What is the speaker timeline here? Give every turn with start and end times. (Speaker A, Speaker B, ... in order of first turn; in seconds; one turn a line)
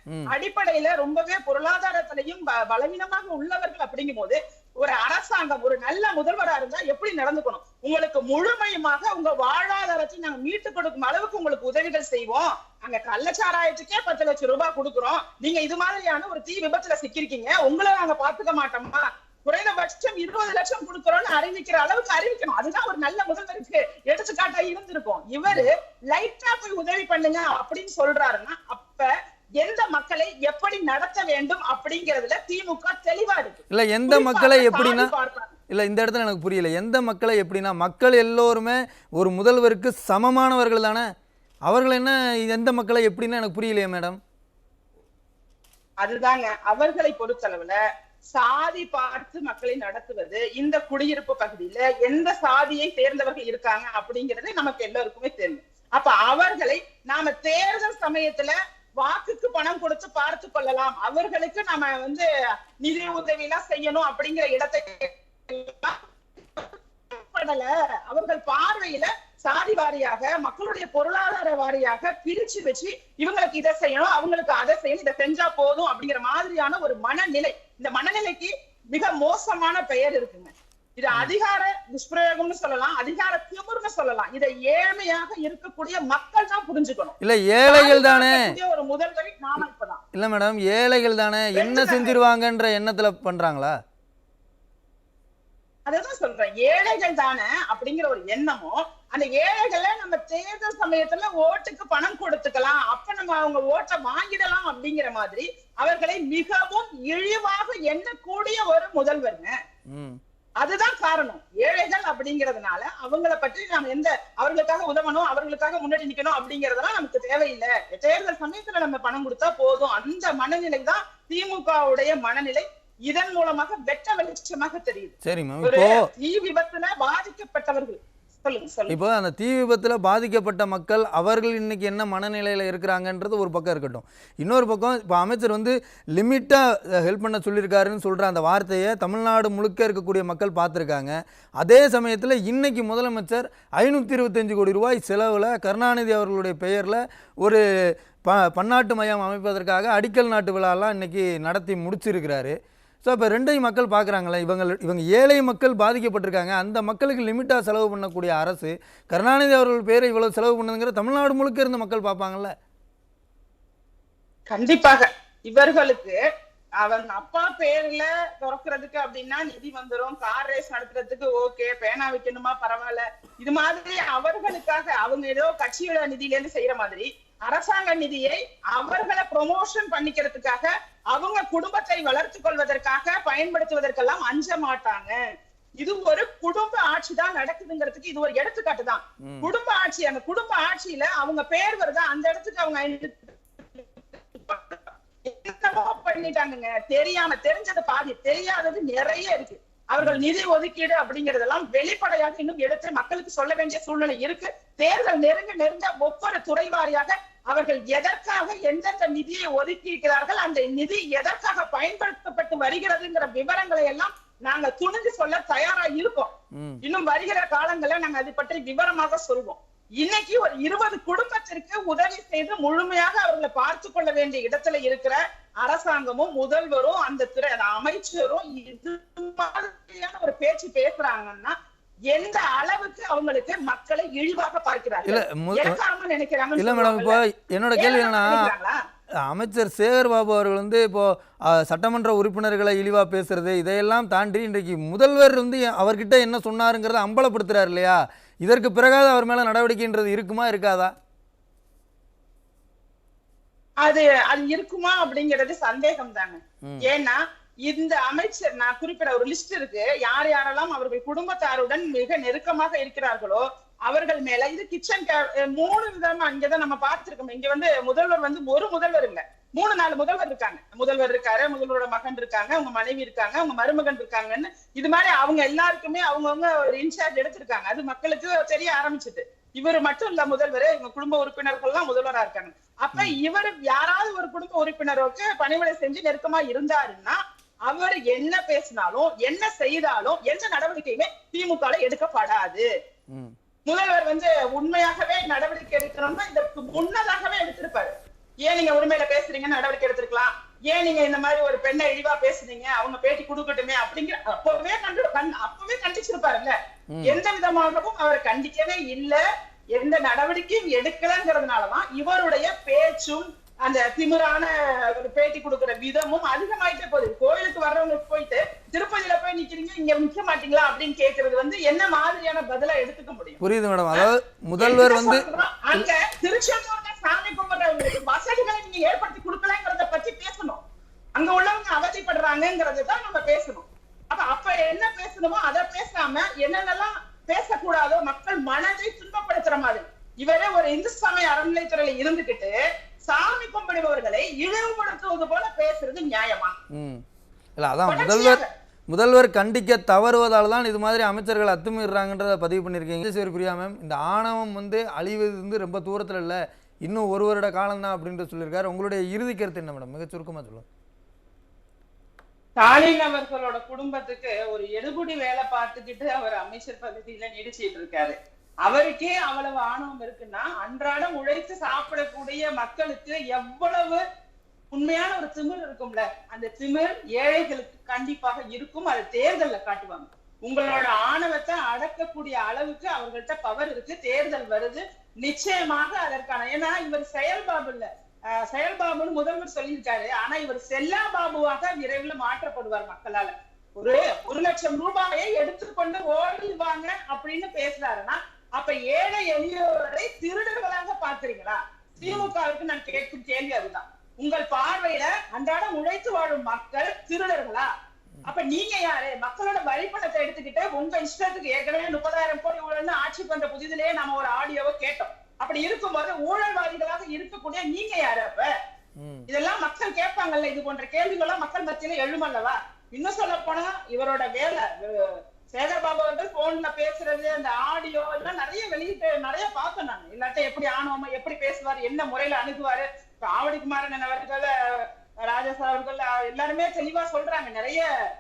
Speaker A: 0.3-29.1
Speaker A: 29.6-35.5
Speaker B: 33.7-35.1
Speaker B: 35.7-41.0
Speaker B: 41.7-44.2
Speaker A: 46.0-47.8
Speaker A: 48.4-62.3
Speaker A: 62.8-87.2
Speaker B: 87.2-88.5
Speaker A: 87.7-90.0
Speaker B: 90.1-93.7
Speaker A: 91.5-92.2
Speaker A: 95.9-109.5
Speaker B: 109.9-110.2
Speaker A: 110.6-129.0
Speaker B: 125.2-126.1
Speaker B: 128.9-147.6
Speaker B: 148.2-162.5
Speaker A: 164.5-166.2
Speaker A: 166.8-185.2
Speaker A: 185.8-216.3
Speaker B: 189.2-189.5
Speaker B: 200.0-200.2
Speaker B: 216.6-216.8
Speaker A: 216.8-231.5
Speaker A: 232.1-237.2
Speaker B: 235.1-235.8
Speaker B: 236.6-238.5
Speaker A: 237.8-238.8
Speaker B: 239.3-250.9
Speaker A: 253.8-292.6
Speaker A: 293.7-309.2
Speaker B: 306.9-307.2
Speaker A: 309.8-323.4
Speaker B: 323.4-325.3
Speaker A: 324.6-330.6
Speaker A: 331.2-342.6
Speaker A: 343.1-346.6
Speaker B: 346.7-347.0
Speaker B: 347.6-360.6
Speaker A: 347.9-348.5
Speaker A: 362.6-368.1
Speaker A: 368.6-374.0
Speaker A: 374.7-407.7
Speaker B: 402.0-402.3
Speaker A: 408.2-418.5
Speaker B: 419.0-419.3
Speaker A: 419.3-437.9